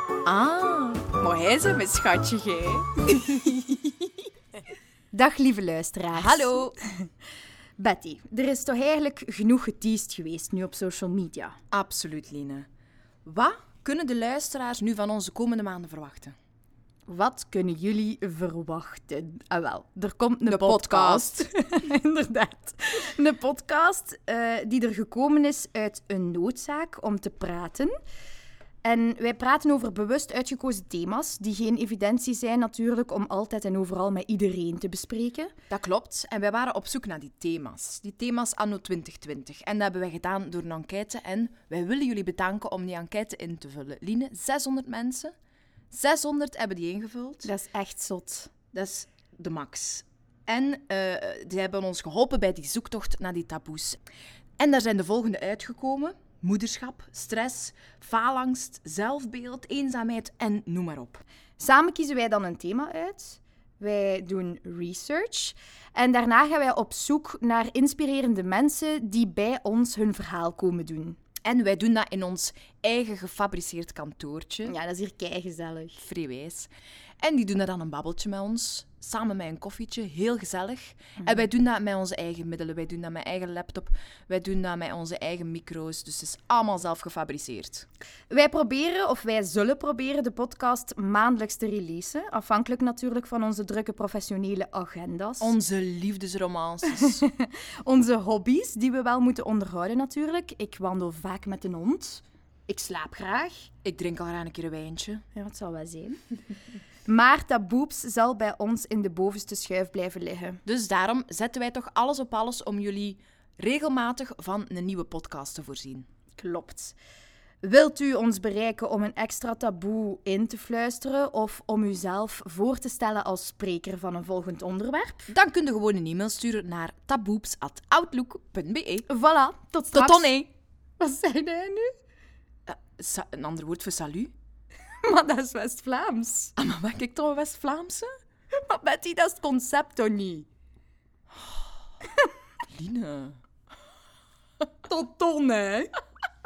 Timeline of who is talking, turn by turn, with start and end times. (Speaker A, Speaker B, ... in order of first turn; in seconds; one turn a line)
Speaker A: 0.2-3.8
Speaker B: 5.1-6.8
Speaker A: 6.2-6.7
Speaker B: 7.8-11.6
Speaker A: 11.7-12.7
Speaker A: 13.2-16.4
Speaker B: 17.1-27.9
Speaker A: 20.5-21.4
Speaker B: 28.8-35.5
Speaker A: 35.7-45.3
Speaker A: 45.9-47.5
Speaker B: 47.4-48.5
Speaker A: 48.7-54.0
Speaker A: 54.6-61.2
Speaker B: 61.6-71.2
Speaker A: 71.5-74.8
Speaker B: 74.7-76.0
Speaker A: 76.0-76.7
Speaker A: 77.2-87.9
Speaker B: 88.3-95.5
Speaker A: 95.4-97.2
Speaker B: 96.9-103.7
Speaker A: 103.8-105.2
Speaker B: 105.3-106.2
Speaker B: 107.1-110.6
Speaker A: 110.7-116.1
Speaker B: 116.4-117.0
Speaker B: 117.6-125.3
Speaker A: 125.3-129.1
Speaker B: 129.1-130.3
Speaker A: 129.9-130.5
Speaker B: 131.0-131.9
Speaker A: 132.7-134.3
Speaker B: 135.0-136.5
Speaker A: 136.6-138.1
Speaker B: 138.6-140.5
Speaker A: 142.7-143.4
Speaker B: 144.8-145.9